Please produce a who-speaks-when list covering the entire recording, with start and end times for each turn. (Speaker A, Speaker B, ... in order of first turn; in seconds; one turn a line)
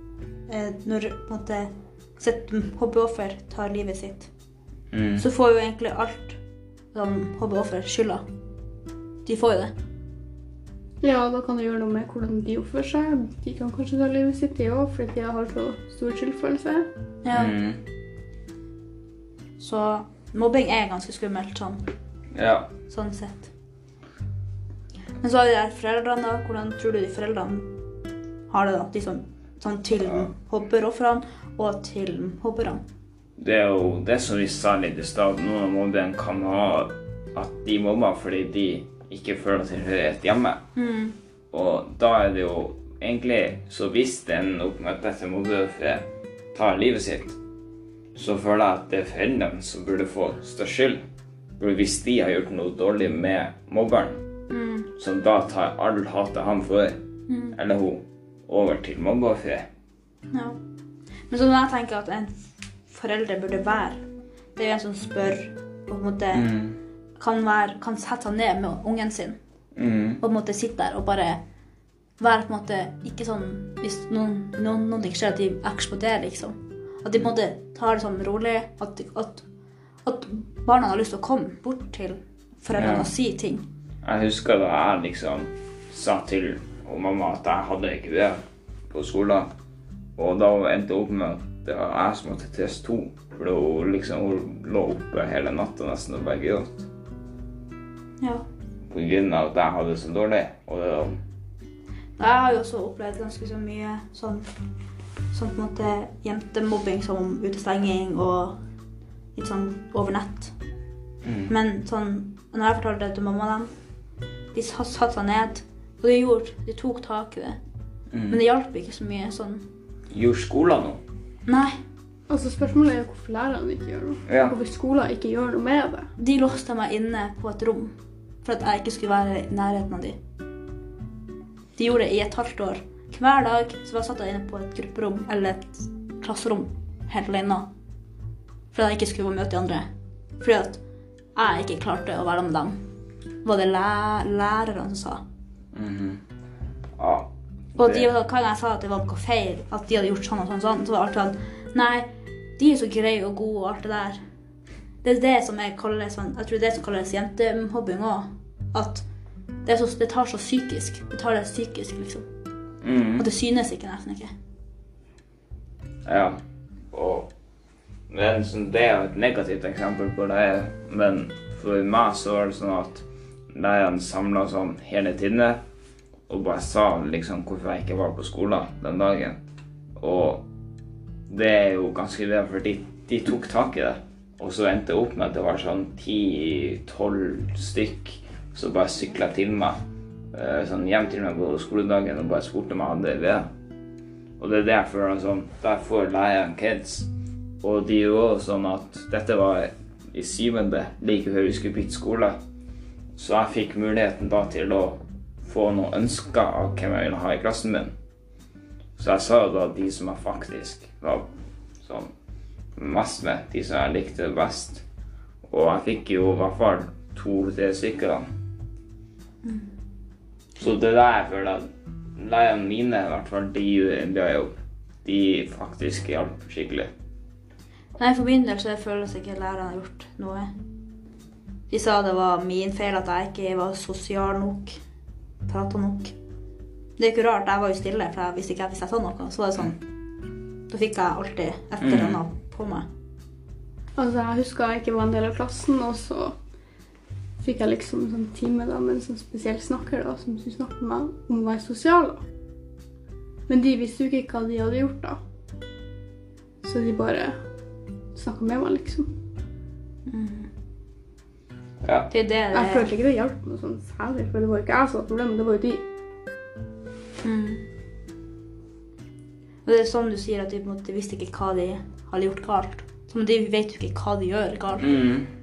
Speaker A: 0.5-4.3
Speaker B: 4.9-5.2
Speaker A: 5.2-6.4
Speaker A: 6.9-8.2
Speaker A: 9.2-9.7
Speaker C: 11.0-16.9
Speaker A: 17.2-17.5
Speaker B: 17.3-17.8
Speaker A: 19.6-21.9
Speaker B: 22.3-22.7
Speaker A: 22.9-23.5
Speaker A: 25.2-27.7
Speaker A: 28.5-32.8
Speaker B: 33.4-40.6
Speaker A: 40.8-41.1
Speaker B: 41.5-47.4
Speaker B: 48.1-51.0
Speaker B: 51.6-54.2
Speaker A: 54.5-54.9
Speaker B: 55.0-57.0
Speaker A: 57.3-57.5
Speaker B: 57.5-59.6
Speaker A: 60.3-60.6
Speaker A: 61.3-62.3
Speaker A: 62.9-64.0
Speaker A: 64.5-66.5
Speaker B: 66.3-66.8
Speaker A: 67.2-69.4
Speaker B: 69.8-70.2
Speaker A: 70.2-71.4
Speaker A: 72.2-79.4
Speaker A: 80.0-83.6
Speaker B: 82.8-83.1
Speaker B: 84.0-88.4
Speaker B: 88.9-89.5
Speaker B: 90.2-96.9
Speaker A: 98.2-98.5
Speaker B: 98.9-101.1
Speaker A: 102.2-104.5
Speaker A: 105.3-108.6
Speaker A: 109.3-110.5
Speaker B: 111.2-111.5
Speaker A: 111.5-113.7
Speaker A: 114.5-117.6
Speaker B: 118.1-118.4
Speaker A: 118.3-119.6
Speaker B: 120.1-121.0
Speaker A: 121.5-121.7
Speaker C: 122.3-126.1
Speaker B: 124.3-124.5
Speaker A: 126.2-130.2
Speaker A: 131.8-137.7
Speaker A: 138.7-139.8
Speaker A: 140.4-140.8
Speaker A: 141.3-142.8
Speaker A: 143.4-145.2
Speaker B: 145.7-146.2
Speaker B: 147.0-148.1
Speaker A: 147.8-154.2
Speaker A: 155.0-159.0
Speaker A: 159.6-162.2
Speaker B: 162.8-163.3
Speaker A: 163.2-164.3
Speaker B: 166.1-166.4
Speaker B: 166.9-167.3
Speaker B: 168.1-175.6
Speaker B: 176.3-179.4
Speaker B: 180.0-180.4
Speaker B: 181.3-189.8
Speaker B: 190.3-193.4
Speaker B: 194.4-197.1
Speaker B: 197.6-202.3
Speaker B: 203.2-207.9
Speaker B: 209.0-211.2
Speaker B: 211.8-212.1
Speaker B: 212.8-214.8
Speaker B: 215.4-218.2
Speaker A: 219.4-219.7
Speaker B: 220.6-226.9
Speaker A: 228.0-230.5
Speaker A: 231.7-234.8
Speaker A: 235.5-236.1
Speaker A: 237.0-239.8
Speaker A: 240.7-242.9
Speaker B: 241.8-242.2
Speaker C: 243.9-246.3
Speaker C: 247.4-252.2
Speaker C: 253.5-255.2
Speaker C: 256.6-257.4
Speaker C: 258.1-259.1
Speaker A: 260.1-260.5
Speaker B: 261.8-262.1
Speaker A: 262.1-262.9
Speaker C: 262.5-265.8
Speaker A: 267.2-267.6
Speaker A: 269.6-275.0
Speaker B: 274.8-275.3